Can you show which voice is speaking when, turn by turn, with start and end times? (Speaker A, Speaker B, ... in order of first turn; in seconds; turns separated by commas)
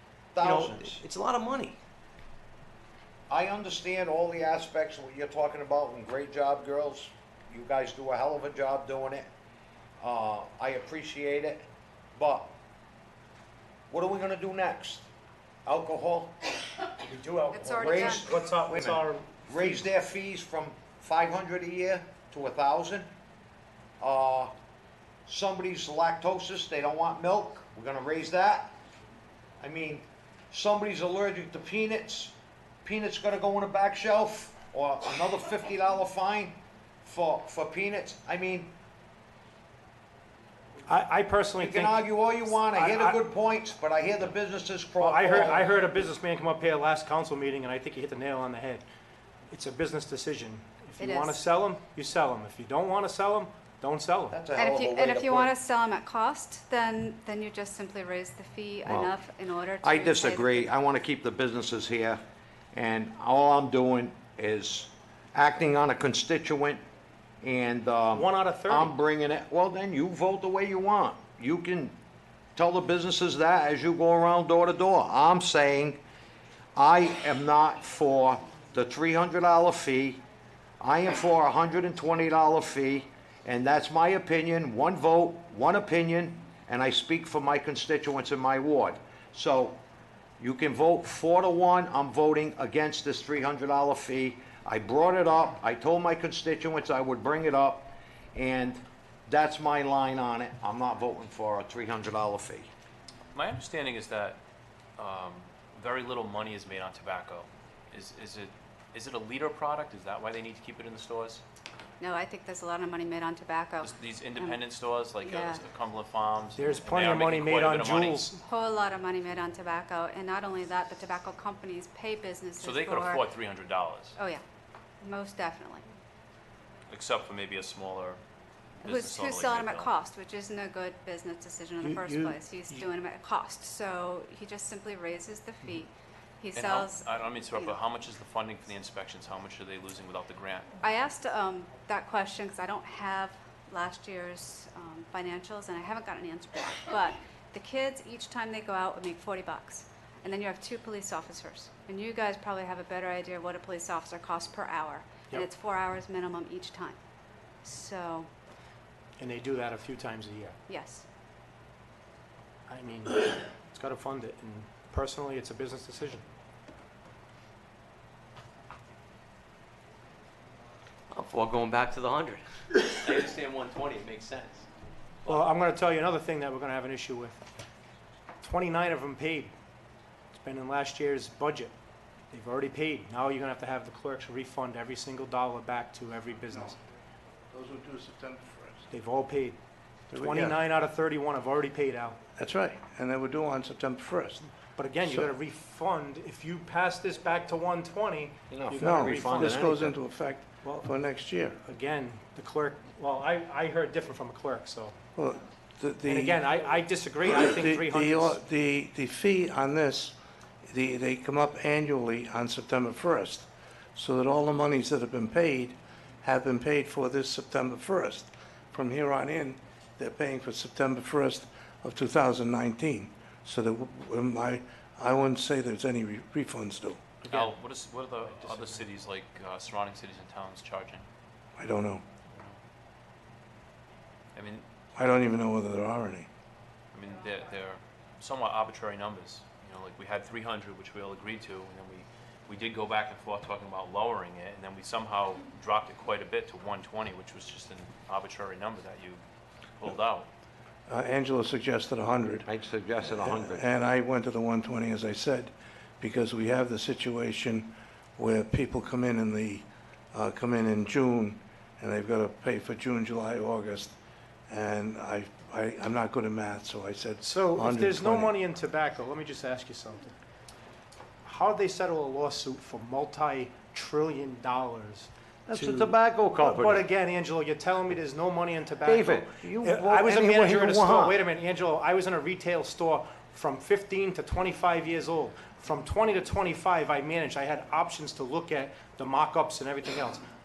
Speaker A: 0.3-1.0, Speaker B: 0.4-1.8, Speaker A: 3.3-9.3, Speaker A: 10.0-12.5, Speaker A: 13.9-15.1, Speaker A: 15.6-16.4, Speaker C: 17.0-19.5, Speaker D: 17.5-18.3, Speaker A: 17.8-23.1, Speaker A: 24.0-24.5, Speaker A: 25.3-28.8, Speaker A: 29.6-38.7, Speaker C: 40.9-43.2, Speaker A: 41.6-45.7, Speaker C: 45.0-48.8, Speaker C: 49.5-54.5, Speaker D: 51.0-51.4, Speaker A: 54.3-55.5, Speaker D: 54.5-60.8, Speaker A: 58.9-59.1, Speaker A: 59.8-62.2, Speaker A: 62.7-66.8, Speaker A: 67.4-72.0, Speaker C: 68.1-68.9, Speaker A: 72.5-76.0, Speaker A: 76.8-80.2, Speaker A: 80.8-89.8, Speaker A: 90.4-102.7, Speaker E: 103.3-104.4, Speaker E: 105.0-111.4, Speaker D: 112.0-114.6, Speaker E: 113.8-118.3, Speaker D: 115.2-115.6, Speaker C: 116.5-118.4, Speaker D: 118.4-123.3, Speaker E: 122.6-124.2, Speaker D: 124.2-124.4, Speaker D: 125.0-125.8, Speaker E: 126.9-128.2, Speaker D: 128.8-137.8, Speaker E: 128.8-129.9, Speaker C: 131.9-132.8, Speaker E: 136.5-140.7, Speaker D: 140.8-157.0, Speaker D: 157.6-158.3, Speaker C: 159.2-160.6, Speaker D: 160.7-161.0, Speaker C: 162.7-166.2, Speaker B: 171.1-174.7, Speaker C: 175.3-177.4, Speaker C: 178.4-179.5, Speaker C: 180.3-181.7, Speaker C: 182.3-186.8, Speaker F: 187.5-188.9, Speaker C: 188.9-189.6, Speaker C: 190.1-192.2, Speaker F: 190.1-190.6, Speaker F: 192.3-194.5, Speaker C: 194.8-199.7, Speaker F: 195.0-195.3, Speaker A: 198.5-200.0, Speaker F: 198.8-201.6, Speaker C: 200.6-200.9, Speaker C: 201.6-204.9, Speaker F: 205.1-206.4, Speaker C: 206.1-208.4, Speaker F: 207.3-227.1, Speaker E: 227.2-231.1, Speaker C: 228.4-228.8, Speaker F: 231.6-232.0, Speaker E: 234.3-234.7, Speaker F: 234.9-236.3, Speaker E: 236.9-249.2, Speaker E: 249.8-250.3, Speaker F: 250.9-252.5, Speaker A: 252.4-253.6, Speaker F: 253.1-263.9, Speaker F: 264.5-268.4, Speaker C: 267.2-270.1, Speaker C: 271.2-290.2, Speaker A: 275.5-276.8, Speaker A: 278.8-281.2